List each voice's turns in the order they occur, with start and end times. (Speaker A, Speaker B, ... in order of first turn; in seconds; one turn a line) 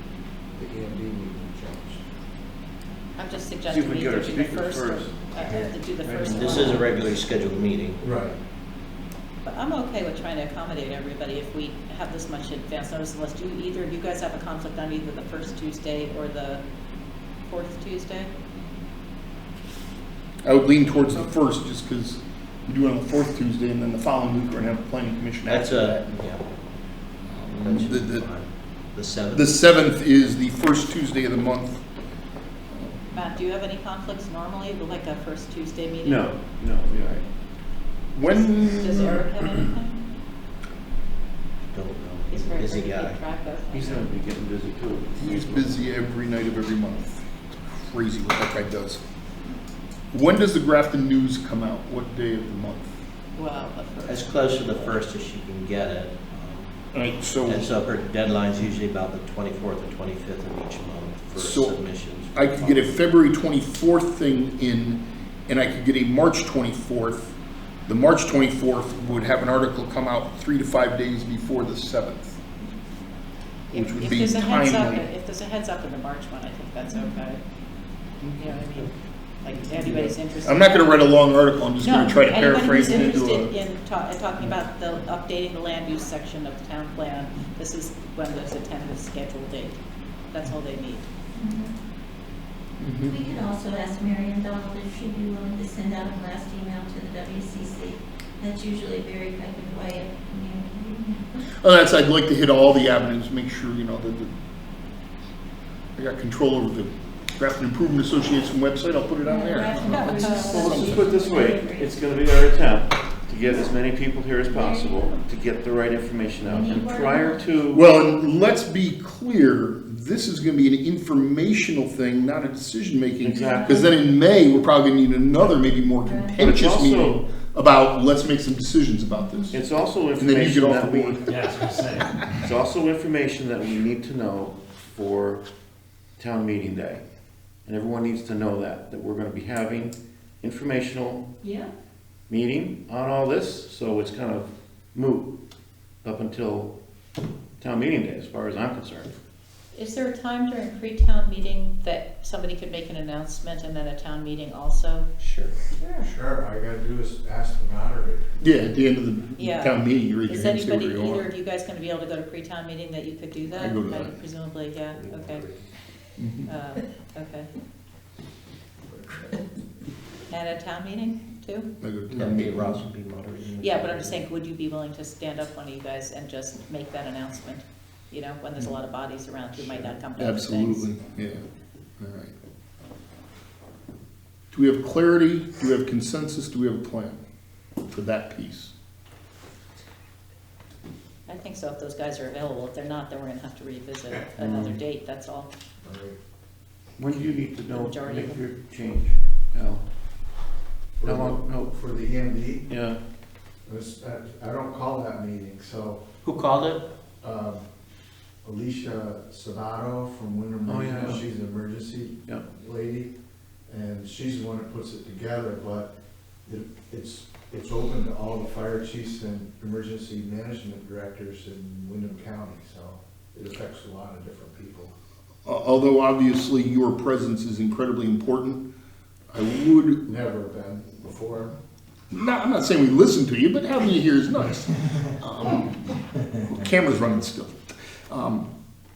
Speaker A: 0.5-2.0
Speaker B: 3.2-6.8
Speaker C: 3.7-6.8
Speaker D: 6.2-8.0
Speaker A: 8.0-8.4
Speaker B: 9.4-16.6
Speaker B: 17.4-18.3
Speaker E: 20.4-26.1
Speaker D: 25.4-26.4
Speaker E: 27.2-28.2
Speaker D: 27.6-29.6
Speaker E: 29.3-31.8
Speaker E: 32.7-33.1
Speaker B: 33.1-36.3
Speaker C: 36.0-37.2
Speaker E: 38.1-39.2
Speaker B: 38.3-40.0
Speaker D: 41.7-43.2
Speaker B: 42.3-44.1
Speaker C: 43.7-45.8
Speaker E: 45.2-49.0
Speaker E: 50.1-53.0
Speaker B: 53.3-55.0
Speaker D: 54.0-56.9
Speaker E: 56.9-57.8
Speaker D: 57.4-63.0
Speaker E: 61.4-61.8
Speaker E: 62.3-67.3
Speaker E: 67.9-72.4
Speaker B: 73.7-77.4
Speaker E: 73.7-75.1
Speaker F: 76.9-77.2
Speaker E: 78.2-78.8
Speaker B: 78.4-78.9
Speaker B: 79.4-81.2
Speaker E: 79.8-83.5
Speaker B: 81.8-89.8
Speaker B: 90.3-91.0
Speaker F: 91.3-91.7
Speaker E: 92.8-93.2
Speaker F: 93.0-101.3
Speaker E: 101.5-104.3
Speaker E: 106.0-111.1
Speaker F: 109.2-112.0
Speaker B: 109.7-110.8
Speaker C: 110.4-117.9
Speaker F: 113.4-113.8
Speaker F: 114.5-115.2
Speaker F: 116.4-117.4
Speaker E: 117.7-129.6
Speaker C: 123.2-123.9
Speaker F: 123.3-123.9
Speaker F: 126.0-126.4
Speaker C: 126.4-127.2
Speaker F: 129.1-129.5
Speaker C: 129.5-135.4
Speaker E: 130.2-131.3
Speaker C: 136.2-137.0
Speaker C: 137.6-141.3
Speaker F: 141.4-141.7
Speaker C: 142.3-145.3
Speaker C: 146.0-146.7
Speaker C: 147.6-149.1
Speaker B: 149.7-155.1
Speaker D: 155.2-155.9
Speaker A: 156.0-158.3
Speaker E: 158.4-161.3
Speaker B: 159.3-165.4
Speaker E: 163.5-164.2
Speaker D: 164.9-165.7
Speaker E: 166.2-166.5
Speaker B: 166.4-167.5
Speaker D: 168.9-169.3
Speaker B: 170.3-171.7
Speaker E: 171.8-172.8
Speaker D: 172.1-174.2
Speaker B: 173.6-180.9
Speaker E: 180.1-181.4
Speaker E: 182.0-182.3
Speaker E: 184.5-187.2
Speaker E: 187.8-188.7
Speaker B: 191.3-195.5
Speaker A: 195.8-196.2
Speaker C: 197.0-199.8
Speaker B: 197.7-198.4
Speaker A: 201.0-202.7
Speaker C: 201.0-201.7
Speaker C: 202.7-203.0
Speaker A: 203.6-206.0
Speaker D: 206.4-206.8
Speaker A: 207.2-207.6
Speaker A: 208.4-213.1
Speaker C: 210.6-211.2
Speaker A: 213.7-215.9
Speaker A: 216.4-224.9
Speaker E: 225.4-228.6
Speaker E: 229.3-230.1
Speaker A: 230.1-231.6
Speaker E: 232.1-237.6
Speaker E: 238.1-238.5